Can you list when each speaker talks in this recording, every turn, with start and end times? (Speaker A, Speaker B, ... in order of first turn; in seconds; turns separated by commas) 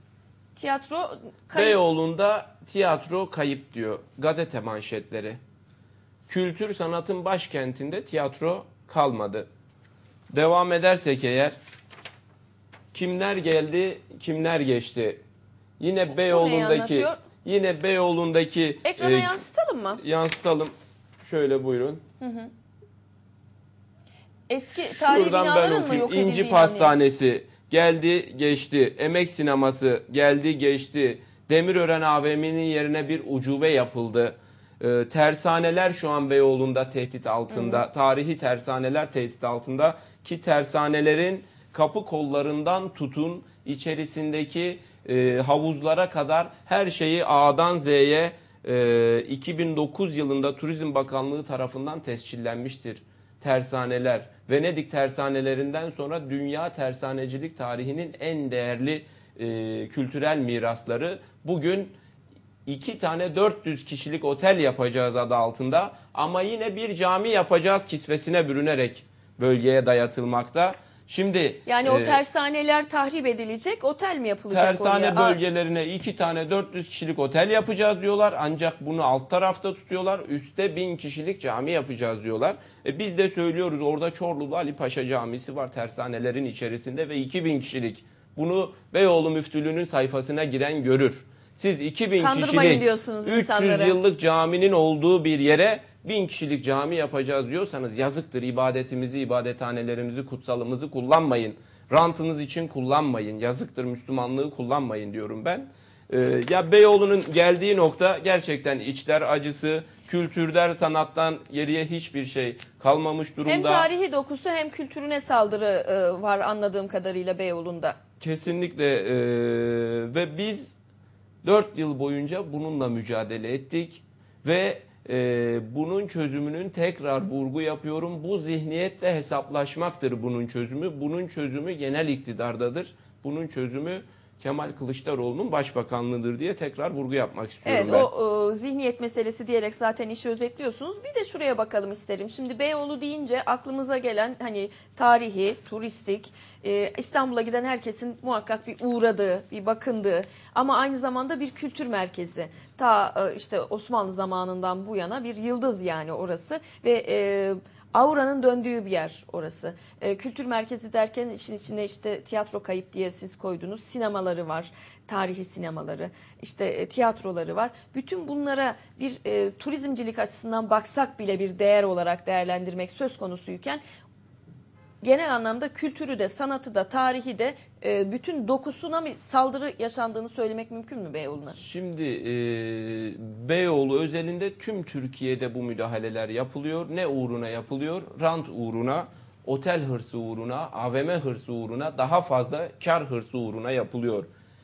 Speaker A: 0.6-1.8, Speaker B: 1.5-5.4, Speaker B: 6.3-9.5, Speaker B: 10.3-11.5, Speaker B: 12.9-15.2, Speaker B: 15.8-19.4, Speaker A: 16.1-17.2, Speaker A: 18.8-20.0, Speaker B: 20.0-22.0, Speaker A: 22.2-22.5, Speaker A: 24.5-26.9, Speaker B: 24.8-62.0, Speaker A: 37.5-37.8, Speaker B: 62.6-72.2, Speaker A: 71.7-75.4, Speaker B: 74.5-113.9, Speaker A: 92.2-94.0, Speaker A: 113.5-118.0, Speaker B: 118.2-120.8, Speaker B: 121.4-138.1, Speaker A: 137.6-173.8, Speaker A: 175.0-181.6, Speaker B: 181.5-194.3